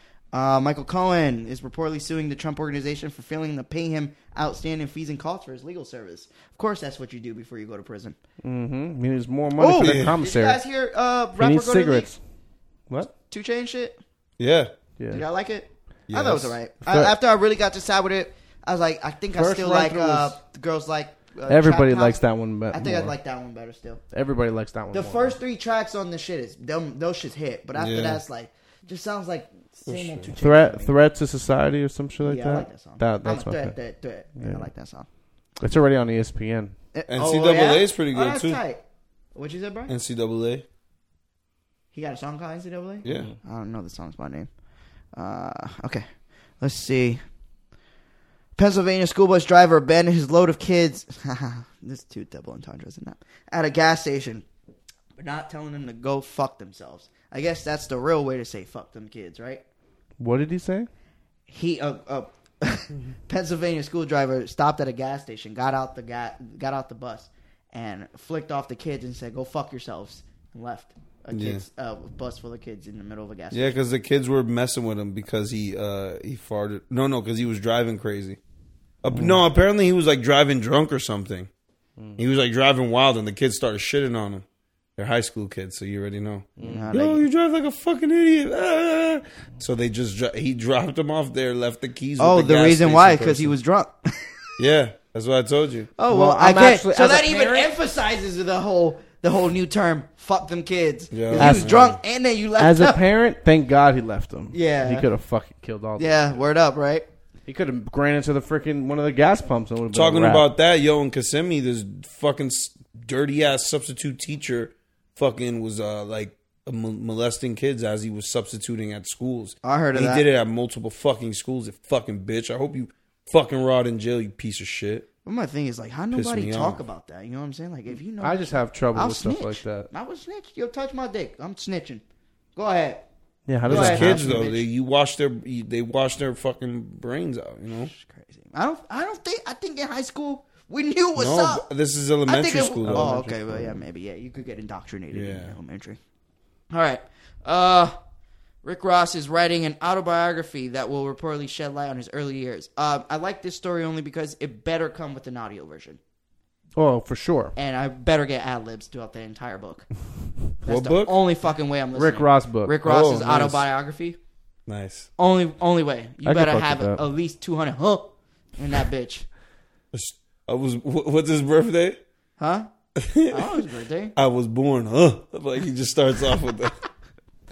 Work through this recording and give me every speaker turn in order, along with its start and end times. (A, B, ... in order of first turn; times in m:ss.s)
0:00.3-0:08.2 A
0:08.4-0:10.6 B
0:09.6-0:12.1 A
0:09.8-0:10.1 C
0:11.4-0:12.2 B
0:13.3-0:14.0 A
0:14.4-0:14.7 C
0:15.1-0:24.0 A
0:16.1-0:16.6 C
0:16.8-0:17.1 B
0:19.3-0:20.4 B
0:21.5-0:23.1 B
0:24.1-0:25.4 B
0:24.9-0:30.9 A
0:27.8-0:28.2 C
0:29.8-0:30.3 C
0:30.4-0:33.7 B
0:32.2-0:35.0 A
0:34.4-0:34.7 B
0:35.6-0:36.7 B
0:36.9-0:38.8 A
0:37.1-0:38.6 C
0:39.3-0:39.9 A
0:39.9-0:40.6 C
0:41.9-0:44.5 A
0:43.0-0:43.3 C
0:43.1-0:43.3 B
0:45.1-0:46.0 A
0:46.6-0:47.2 A
0:48.6-0:54.4 A
0:55.2-0:59.6 A
1:00.2-1:00.9 B
1:01.5-1:13.8 A
1:11.3-1:11.6 C
1:13.5-1:18.4 C
1:19.0-1:21.5 C
1:19.1-1:19.4 B
1:22.2-1:24.4 C
1:25.0-1:33.5 C
1:26.6-1:26.9 B
1:26.6-1:27.2 A
1:32.2-1:34.3 A
1:34.6-1:35.9 C
1:36.0-1:43.0 A
1:36.1-1:37.7 B
1:41.1-1:42.0 C
1:41.3-1:41.8 B
1:42.6-1:46.4 B
1:44.5-1:45.1 A
1:46.0-1:47.0 A
1:47.5-1:50.5 B
1:49.9-2:05.1 C
1:59.6-2:00.2 A
2:05.2-2:12.0 A
2:06.1-2:06.8 C
2:08.2-2:09.9 B
2:12.6-2:13.0 A
2:13.5-2:14.4 B
2:13.6-2:14.6 A
2:13.6-2:17.9 C
2:17.8-2:21.6 A
2:21.2-2:23.1 C
2:22.3-2:26.0 A
2:22.8-2:23.8 B
2:25.1-2:25.5 C
2:26.7-2:28.0 A
2:28.6-2:36.0 A
2:36.8-2:37.5 B
2:37.5-2:39.8 A
2:40.6-2:44.2 A
2:40.6-2:41.2 C
2:41.9-2:43.5 B
2:42.8-2:43.6 C
2:44.7-2:45.1 C
2:45.2-2:49.2 A
2:46.2-2:47.0 B
2:49.9-2:52.0 C
2:52.4-2:52.7 A
2:53.0-2:53.4 C
2:53.3-2:54.1 A
2:54.2-2:56.8 C